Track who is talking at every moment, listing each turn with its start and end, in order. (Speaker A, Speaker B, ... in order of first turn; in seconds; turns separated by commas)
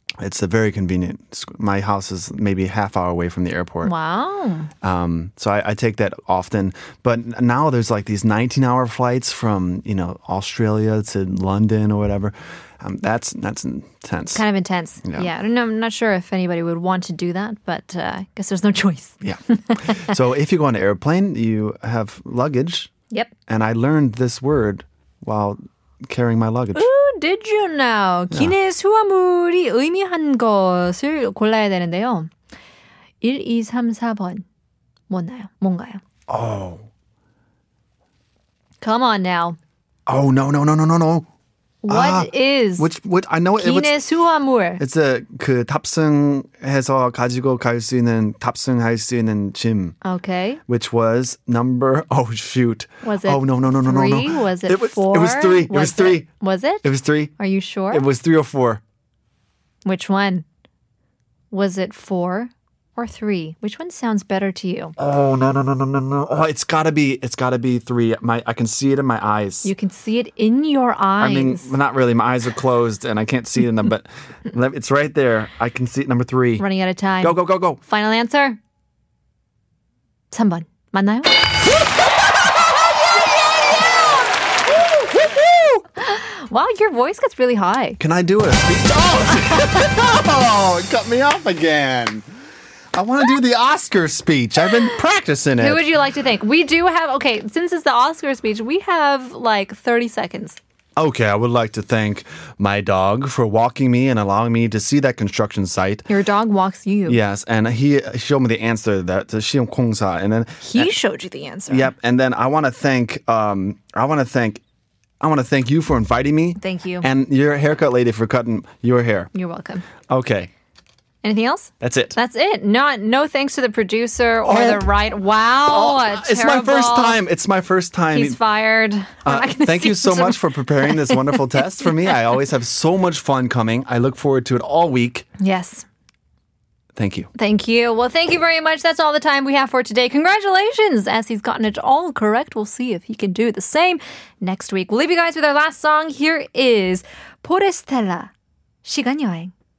Speaker A: 0.2-3.9, Speaker B: 3.8-4.7, Speaker A: 4.8-14.4, Speaker B: 14.3-20.0, Speaker A: 15.0-15.3, Speaker A: 19.2-22.9, Speaker A: 23.5-26.9, Speaker B: 26.7-32.3, Speaker B: 33.2-34.4, Speaker B: 35.1-36.0, Speaker A: 36.3-36.8, Speaker B: 38.8-39.6, Speaker A: 40.1-41.2, Speaker B: 41.8-42.9, Speaker A: 41.9-44.0, Speaker B: 43.5-44.8, Speaker A: 44.8-50.0, Speaker B: 50.0-50.6, Speaker A: 50.7-56.3, Speaker B: 53.0-58.0, Speaker A: 56.8-57.3, Speaker A: 57.9-58.8, Speaker B: 59.8-60.4, Speaker B: 61.5-65.0, Speaker A: 65.0-69.7, Speaker B: 69.6-71.7, Speaker A: 71.2-76.6, Speaker B: 76.6-78.6, Speaker A: 77.2-77.8, Speaker B: 80.3-81.3, Speaker A: 84.7-85.8, Speaker B: 86.0-88.0, Speaker A: 88.0-92.3, Speaker A: 92.9-95.8, Speaker B: 95.6-100.6, Speaker A: 101.0-106.1, Speaker B: 106.1-107.2, Speaker A: 107.1-111.0, Speaker B: 110.6-111.9, Speaker A: 111.7-114.6, Speaker A: 115.2-119.3, Speaker B: 116.6-117.0, Speaker B: 119.3-119.8, Speaker A: 120.1-120.5, Speaker B: 121.2-127.2, Speaker A: 121.8-122.2, Speaker A: 124.4-124.8, Speaker A: 125.6-128.4, Speaker B: 128.1-131.9, Speaker A: 129.2-135.2, Speaker B: 135.4-135.8, Speaker A: 136.9-137.3, Speaker B: 137.3-148.3, Speaker B: 148.8-149.5